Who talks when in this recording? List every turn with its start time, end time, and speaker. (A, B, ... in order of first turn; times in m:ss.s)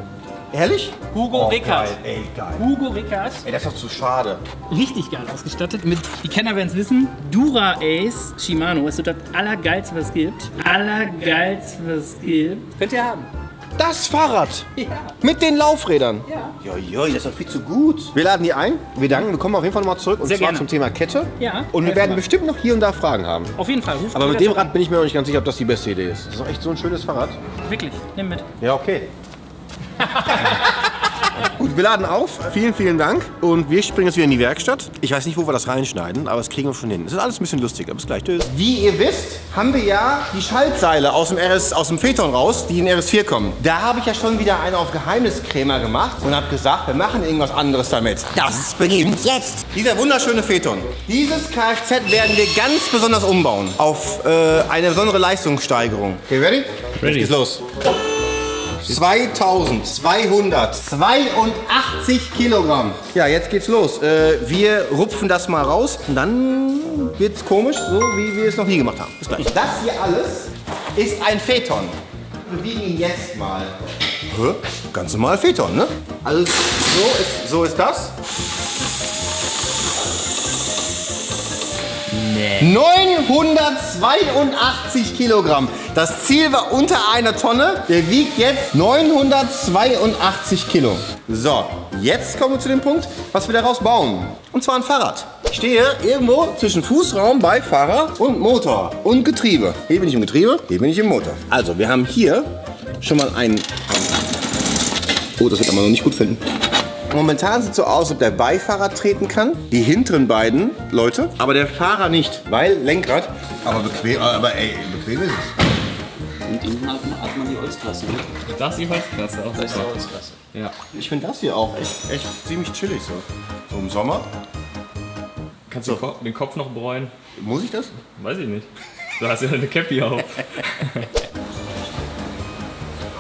0:00.5-0:02.7 A
0:01.1-0:02.0 B
0:02.6-0:03.4 B
0:03.4-0:04.4 A
0:04.7-0:13.3 B
0:13.8-0:14.7 A
0:14.8-0:15.1 B
0:15.2-0:23.5 A
0:16.3-0:16.6 B
0:20.2-0:20.7 B
0:21.4-0:22.2 B
0:23.6-0:24.7 B
0:24.1-0:27.4 A
0:27.6-0:28.5 B
0:28.6-0:29.1 A
0:30.1-0:30.6 B
0:31.3-0:57.6 A
0:57.0-0:57.4 C
0:58.8-1:13.7 A
1:14.3-1:18.2 A
1:22.1-1:22.7 C
1:22.6-1:44.2 A
1:45.4-1:46.4 A
1:47.1-1:55.5 A
1:56.5-1:58.3 D
1:58.5-2:00.7 C
1:59.6-2:00.4 D
2:00.9-2:04.3 A
2:05.7-2:07.1 C
2:07.4-2:08.0 A
2:08.2-2:11.1 C